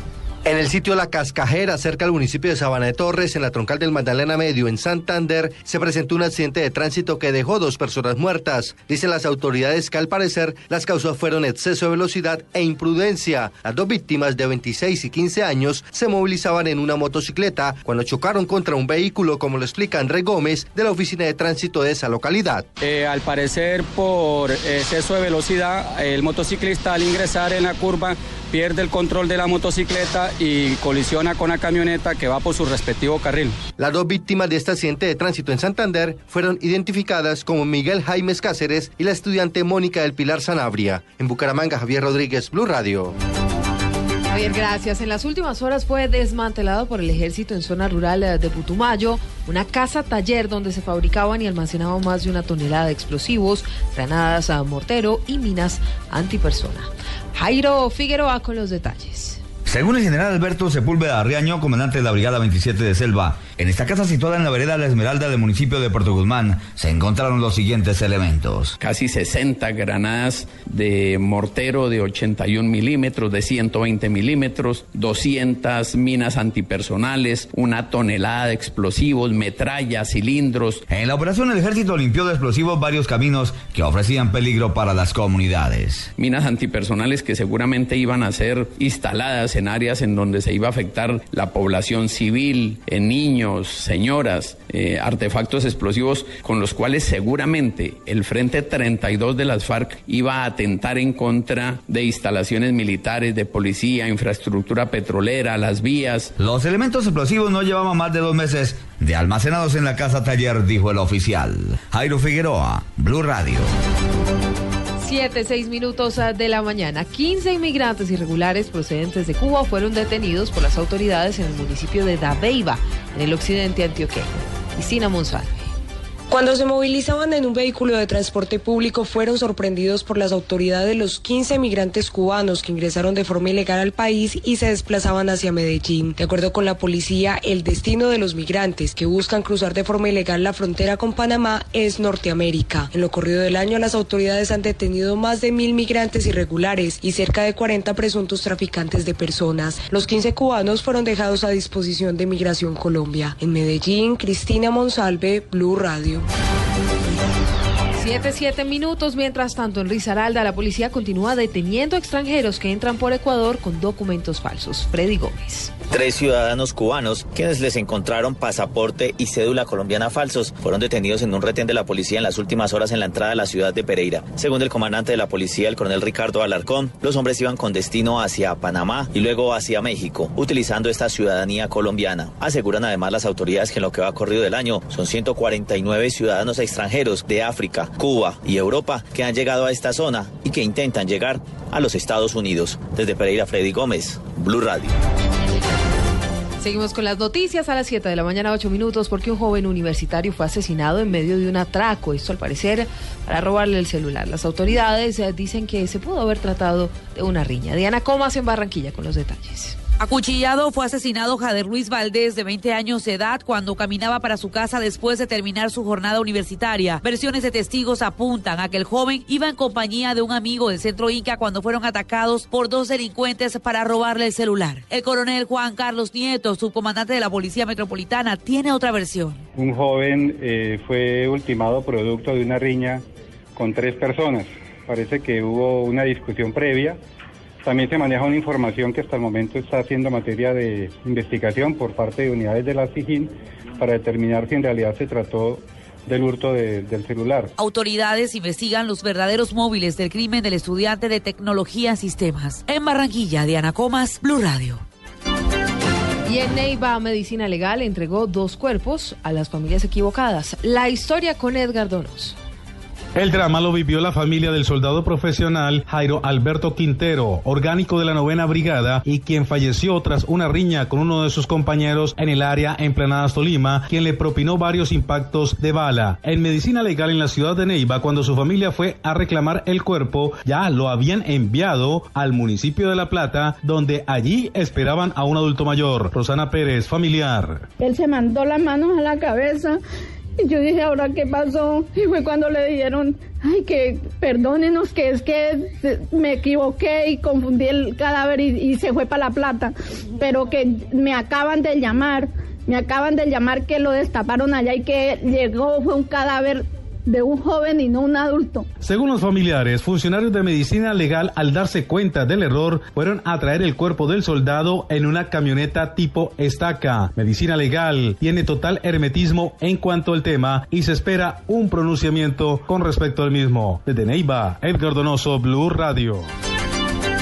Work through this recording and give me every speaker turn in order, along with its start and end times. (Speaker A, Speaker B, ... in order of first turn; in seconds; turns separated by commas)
Speaker A: 0.5-22.7, Speaker B: 22.8-33.5, Speaker A: 33.8-43.1, Speaker C: 44.3-59.4, Speaker D: 59.7-68.7, Speaker E: 68.8-80.8, Speaker D: 80.9-86.1, Speaker E: 86.2-106.3, Speaker D: 106.4-113.7, Speaker C: 115.0-125.7, Speaker F: 126.4-154.9, Speaker B: 128.6-128.9, Speaker B: 131.7-132.1, Speaker B: 146.2-147.5, Speaker B: 149.8-150.4, Speaker B: 151.1-156.2, Speaker F: 155.6-156.0, Speaker C: 158.0-165.7, Speaker G: 165.9-194.9, Speaker C: 196.6-209.8, Speaker H: 210.0-229.4, Speaker I: 229.6-233.0, Speaker I: 233.6-237.0, Speaker I: 237.7-247.5, Speaker H: 247.6-254.8, Speaker C: 256.3-262.4, Speaker J: 263.2-287.6, Speaker K: 287.8-289.8, Speaker K: 290.4-308.6, Speaker J: 308.8-326.3